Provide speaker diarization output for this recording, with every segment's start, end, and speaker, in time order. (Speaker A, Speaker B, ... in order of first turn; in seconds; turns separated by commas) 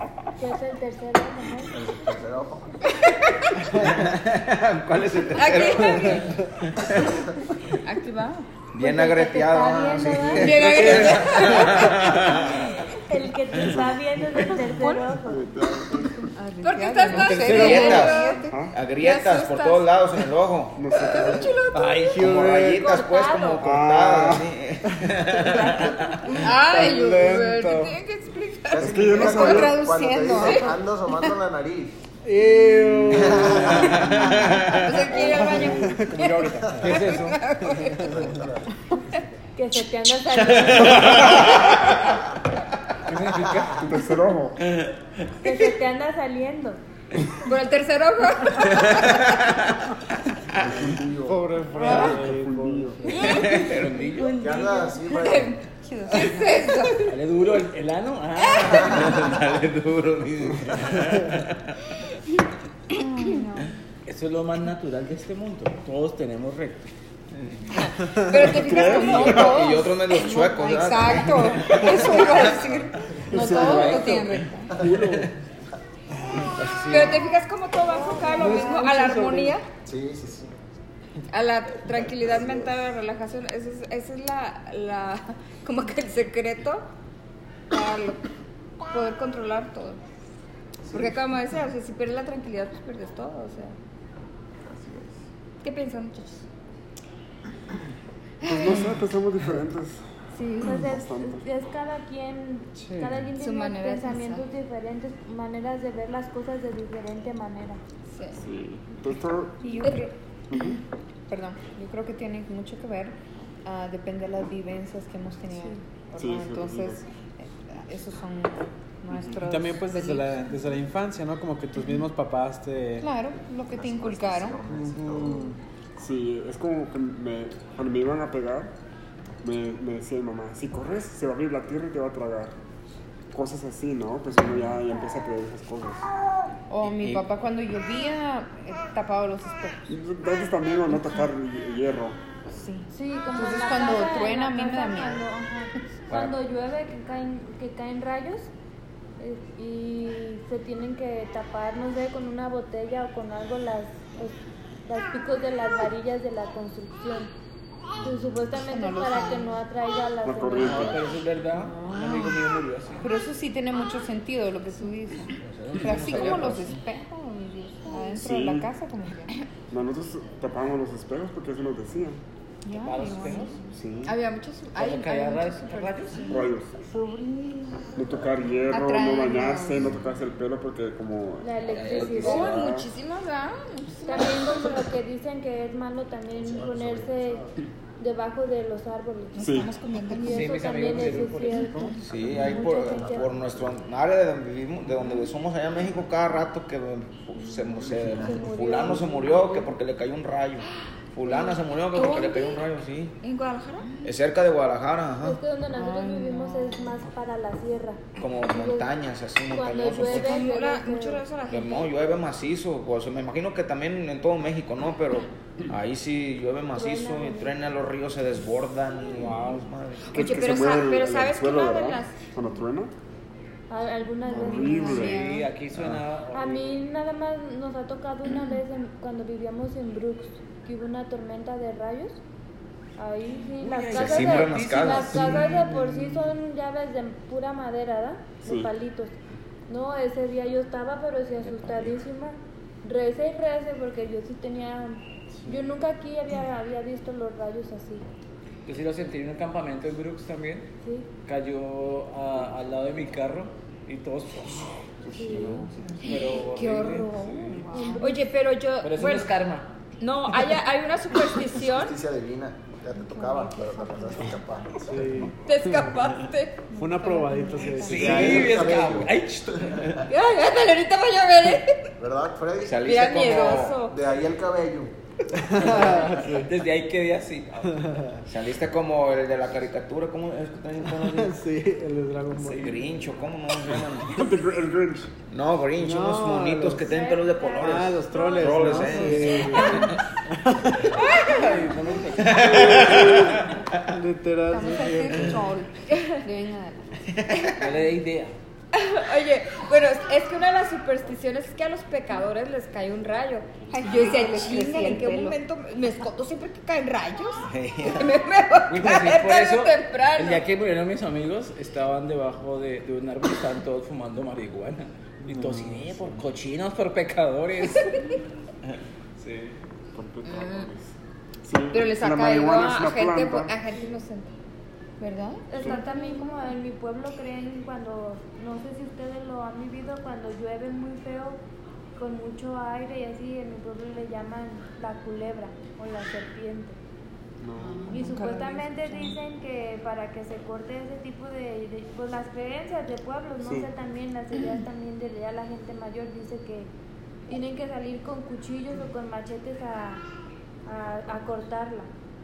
Speaker A: 0.4-1.7, Speaker B: 1.7-2.8, Speaker C: 2.9-3.6, Speaker D: 3.7-7.2, Speaker C: 5.3-6.3, Speaker C: 7.8-8.5, Speaker D: 8.7-12.7, Speaker A: 8.8-11.1, Speaker C: 10.3-12.2, Speaker E: 10.7-11.8, Speaker A: 13.0-15.4, Speaker C: 14.8-15.1, Speaker F: 15.2-16.2, Speaker G: 16.2-18.6, Speaker C: 16.6-19.9, Speaker D: 17.1-21.4, Speaker F: 18.5-18.8, Speaker F: 20.7-21.6, Speaker C: 20.9-22.2, Speaker E: 21.7-22.9, Speaker D: 22.1-26.4, Speaker A: 22.8-23.6, Speaker F: 23.6-24.5, Speaker A: 25.5-26.4, Speaker C: 26.3-29.6, Speaker E: 26.5-28.0, Speaker B: 28.7-32.0, Speaker F: 28.8-29.9, Speaker G: 29.3-30.7, Speaker C: 30.4-30.7, Speaker E: 32.2-34.5, Speaker D: 33.3-35.0, Speaker C: 34.7-38.1, Speaker E: 35.2-37.9, Speaker F: 35.2-36.0, Speaker H: 36.8-37.4, Speaker B: 37.9-38.7, Speaker A: 39.5-41.6, Speaker D: 40.5-42.0, Speaker H: 43.1-44.0, Speaker F: 43.8-44.6, Speaker A: 45.4-46.8, Speaker C: 47.4-49.2, Speaker D: 48.8-49.5, Speaker F: 50.6-53.2, Speaker B: 50.6-51.4, Speaker E: 51.2-53.3, Speaker G: 51.8-52.2, Speaker C: 53.1-53.7, Speaker H: 53.2-54.4, Speaker D: 53.2-54.0, Speaker A: 54.3-54.8, Speaker B: 54.4-55.5, Speaker C: 55.1-57.1, Speaker G: 55.8-57.0, Speaker H: 57.0-59.3, Speaker C: 58.4-58.8, Speaker D: 58.7-61.7, Speaker G: 62.9-63.7, Speaker H: 64.0-66.9, Speaker D: 67.4-67.6, Speaker C: 67.7-69.5, Speaker F: 68.3-69.7, Speaker G: 68.7-74.8, Speaker D: 69.0-72.6, Speaker F: 73.3-75.3, Speaker H: 73.6-74.3, Speaker D: 73.6-74.3, Speaker D: 76.5-77.3, Speaker C: 76.9-79.6, Speaker E: 78.2-79.5, Speaker B: 79.8-80.5, Speaker C: 81.3-86.8, Speaker C: 87.7-88.2, Speaker C: 88.9-90.0, Speaker C: 90.9-93.8, Speaker B: 94.6-95.2, Speaker C: 95.6-96.4, Speaker C: 98.4-98.9, Speaker F: 98.4-100.0, Speaker C: 100.3-100.9, Speaker A: 100.6-107.8, Speaker F: 100.7-101.4, Speaker E: 102.8-103.2, Speaker C: 103.4-104.4, Speaker C: 108.1-108.4, Speaker F: 108.3-109.6, Speaker G: 109.6-110.1, Speaker C: 109.8-110.1, Speaker F: 110.5-110.8, Speaker G: 111.3-120.3, Speaker F: 116.2-117.0, Speaker F: 119.1-119.4, Speaker E: 119.4-123.1, Speaker G: 123.0-124.6, Speaker B: 123.7-125.5, Speaker E: 124.7-125.6, Speaker F: 126.0-128.7, Speaker F: 129.4-132.6, Speaker F: 133.3-136.1, Speaker G: 136.7-139.8, Speaker F: 139.9-142.2, Speaker G: 140.9-141.2, Speaker G: 142.5-145.2, Speaker A: 142.9-148.5, Speaker A: 149.2-157.3, Speaker A: 158.0-161.0, Speaker G: 158.7-159.6, Speaker F: 160.2-161.1, Speaker H: 160.6-163.1, Speaker G: 161.5-169.3, Speaker H: 165.5-166.7, Speaker D: 165.8-166.7, Speaker F: 168.1-168.7, Speaker F: 169.7-172.2, Speaker G: 172.6-173.7, Speaker H: 172.8-173.6, Speaker F: 173.7-174.2, Speaker C: 174.0-176.5, Speaker H: 174.7-176.4, Speaker F: 176.3-176.7, Speaker G: 176.9-177.8, Speaker F: 177.9-182.9, Speaker G: 178.7-179.9, Speaker A: 181.4-182.6, Speaker D: 181.7-182.7, Speaker H: 181.8-182.2, Speaker C: 182.1-184.8, Speaker A: 184.1-189.3, Speaker B: 186.4-187.4, Speaker C: 189.3-190.5, Speaker F: 189.4-189.8, Speaker A: 190.1-193.3, Speaker H: 190.1-191.9, Speaker D: 192.0-203.1, Speaker B: 192.2-193.8, Speaker A: 197.7-199.7, Speaker C: 201.3-202.6, Speaker C: 203.2-203.9, Speaker D: 204.0-205.4, Speaker A: 205.2-208.9, Speaker G: 205.7-207.0, Speaker D: 208.2-210.4, Speaker A: 209.5-211.2, Speaker C: 210.0-211.9, Speaker D: 211.5-220.2, Speaker A: 216.7-217.6, Speaker E: 219.2-219.6, Speaker F: 220.1-222.9, Speaker C: 220.1-222.2, Speaker A: 223.7-225.2, Speaker F: 224.2-225.3, Speaker G: 224.3-225.5, Speaker H: 225.1-226.8, Speaker A: 226.3-232.2, Speaker A: 233.0-239.1, Speaker H: 233.6-235.6, Speaker D: 233.9-235.4, Speaker F: 238.4-238.7, Speaker A: 239.7-248.0, Speaker H: 248.7-250.7, Speaker A: 250.8-251.1, Speaker H: 251.2-254.7, Speaker F: 255.0-256.0, Speaker A: 255.1-255.6, Speaker H: 256.0-257.2, Speaker C: 256.0-257.1, Speaker G: 256.6-258.2, Speaker A: 257.7-258.2, Speaker C: 258.0-259.3, Speaker H: 258.8-259.7, Speaker C: 260.0-261.9, Speaker B: 261.6-265.2, Speaker G: 262.9-264.4, Speaker E: 264.9-265.4, Speaker C: 265.4-266.7, Speaker G: 266.7-268.1, Speaker E: 266.7-268.8, Speaker H: 267.8-270.0, Speaker B: 267.9-269.1, Speaker C: 270.1-271.9, Speaker B: 272.0-273.2, Speaker D: 272.6-273.8, Speaker C: 272.8-273.9, Speaker B: 273.8-274.9, Speaker E: 275.4-276.5, Speaker H: 275.5-277.8, Speaker E: 277.7-278.2, Speaker D: 278.3-281.4, Speaker E: 280.9-282.8, Speaker D: 282.4-284.3, Speaker F: 284.1-285.1, Speaker D: 285.3-289.9, Speaker E: 285.8-286.9, Speaker A: 286.8-289.9, Speaker E: 287.6-291.0, Speaker C: 290.9-291.7, Speaker H: 291.0-292.7, Speaker D: 292.2-293.7, Speaker E: 292.5-295.4, Speaker G: 294.5-296.9, Speaker C: 295.9-296.2, Speaker D: 297.1-297.7, Speaker C: 297.3-297.6, Speaker H: 297.6-298.3, Speaker C: 298.7-307.4, Speaker G: 303.7-305.4, Speaker D: 307.4-308.2, Speaker C: 308.0-310.4, Speaker H: 308.7-318.0, Speaker E: 315.2-316.2, Speaker C: 317.7-318.2, Speaker H: 319.2-319.5, Speaker F: 319.9-323.5, Speaker C: 320.2-320.7, Speaker C: 321.7-324.3, Speaker C: 325.0-326.4, Speaker A: 325.5-331.4, Speaker A: 331.9-336.8, Speaker F: 337.4-338.0, Speaker G: 337.6-339.2, Speaker A: 337.9-346.7, Speaker F: 343.4-343.7, Speaker A: 347.3-350.0, Speaker A: 350.6-351.9